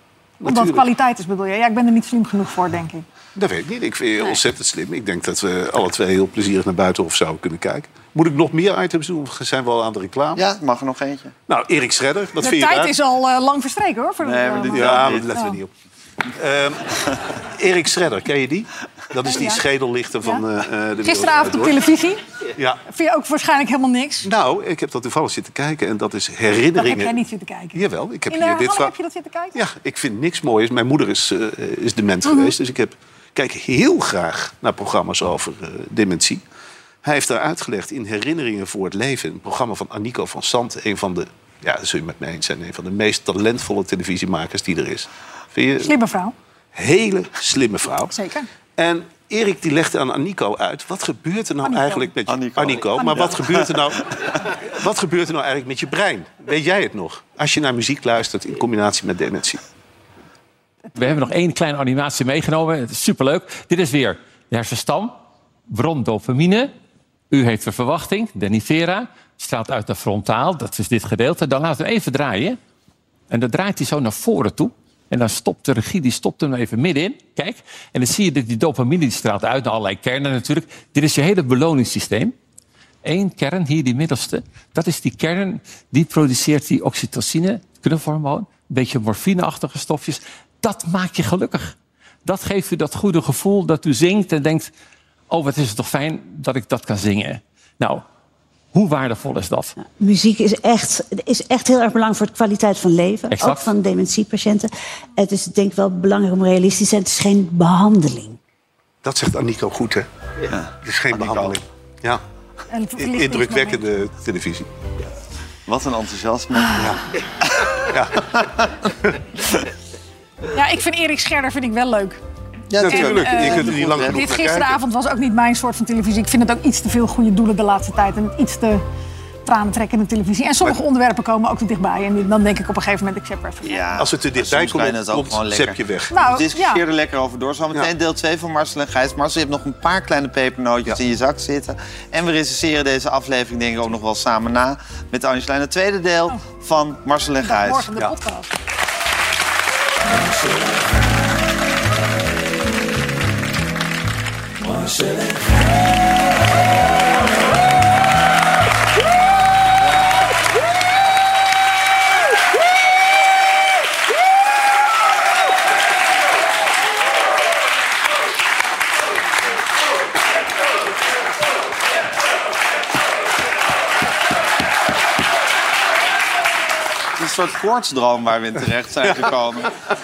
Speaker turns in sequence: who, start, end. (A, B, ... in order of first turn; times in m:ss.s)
0:00.4-0:00.9 A
0:00.4-0:03.0 B
0:03.4-0:10.4 A
0:10.4-0:11.3 C
0:11.5-0:13.0 A
0:12.4-0:15.6 B
0:14.2-0:15.3 C
0:14.6-0:15.7 A
0:16.4-0:21.8 A
0:19.2-0:19.6 B
0:21.0-0:22.2 B
0:22.5-0:22.8 A
0:22.9-0:24.3 B
0:24.2-0:27.2 A
0:26.8-0:29.6 B
0:27.7-0:28.9 A
0:29.5-0:36.4 A
0:32.2-0:32.5 B
0:37.0-0:46.0 A
0:45.8-0:46.4 B
0:46.7-0:48.2 A
0:48.1-0:48.5 B
0:48.8-0:59.6 A
0:51.6-0:52.1 B
0:52.3-0:54.4 C
0:53.0-0:53.5 B
1:01.0-1:05.2 D
1:05.7-1:06.7 D
1:07.3-1:12.6 D
1:13.3-1:22.4 D
1:23.0-1:34.7 D
1:35.3-1:38.0 D
1:38.7-1:39.7 D
1:39.8-1:48.4 E
1:43.3-1:43.7 D
1:49.0-1:50.1 A
1:50.5-1:51.6 C
1:50.8-1:52.2 A
1:52.7-1:53.9 B
1:53.0-1:54.7 A
1:55.7-1:56.8 C
1:56.8-1:57.0 A
1:57.4-1:58.7 C
1:57.9-1:58.3 A
1:58.8-1:59.2 A
2:00.5-2:02.2 B
2:02.7-2:04.2 C
2:02.8-2:04.8 A
2:02.8-2:08.8 B
2:09.4-2:13.8 B
2:13.6-2:27.9 C
2:14.0-2:16.1 A
2:16.1-2:16.8 B
2:27.4-2:28.5 B
2:57.2-2:59.7 C
2:59.0-2:59.3 A